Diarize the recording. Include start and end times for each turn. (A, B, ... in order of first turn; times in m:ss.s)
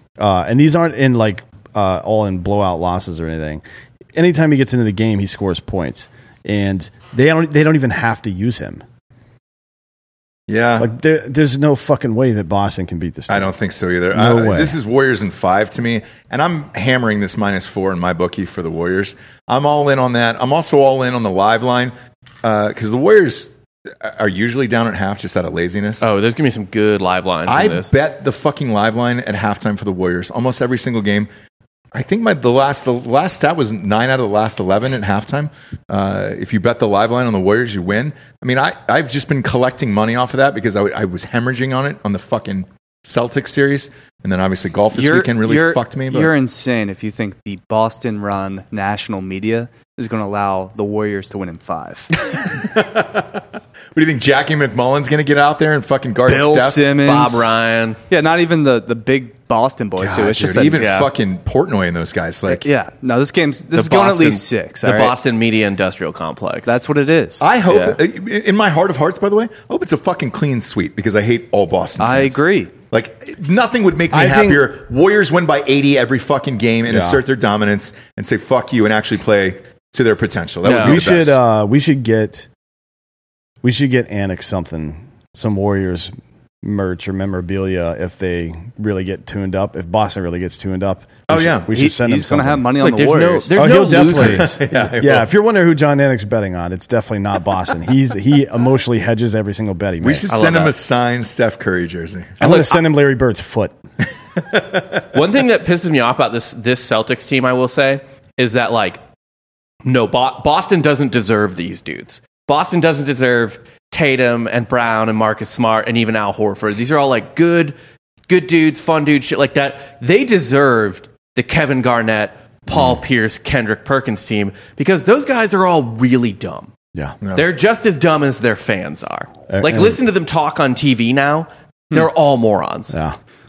0:00.2-0:03.6 A
0:04.2-0:08.8 A
0:10.5-0:10.9 B
0:10.8-0:13.5 A
0:13.3-0:26.0 B
0:14.1-0:14.8 A
0:26.0-0:27.9 C
0:27.5-0:31.3 B
0:31.9-0:46.3 B
0:44.9-0:52.1 D
0:52.4-0:53.4 B
0:53.9-0:56.9 B
0:56.3-0:57.6 D
0:57.0-0:58.0 C
0:58.1-1:00.8 D
1:00.0-1:02.6 B
1:00.8-1:01.1 C
1:02.5-1:05.2 D
1:03.7-1:06.8 C
1:06.7-1:07.4 D
1:07.4-1:21.4 B
1:07.7-1:08.0 C
1:12.0-1:12.7 D
1:14.1-1:14.7 A
1:16.9-1:17.2 A
1:20.6-1:21.0 C
1:20.7-1:22.5 A
1:23.6-1:32.7 A
1:31.3-1:31.7 B
1:31.7-1:33.7 D
1:32.8-1:34.6 C
1:33.6-1:40.3 A
1:34.1-1:35.3 B
1:40.0-1:42.4 B
1:40.3-1:40.8 C
1:42.4-1:43.8 A
1:42.4-1:42.8 C
1:45.1-1:49.0 C
1:49.8-1:57.8 C
1:58.3-2:06.7 C
2:07.3-2:12.9 C
2:09.5-2:10.0 A
2:12.9-2:13.2 A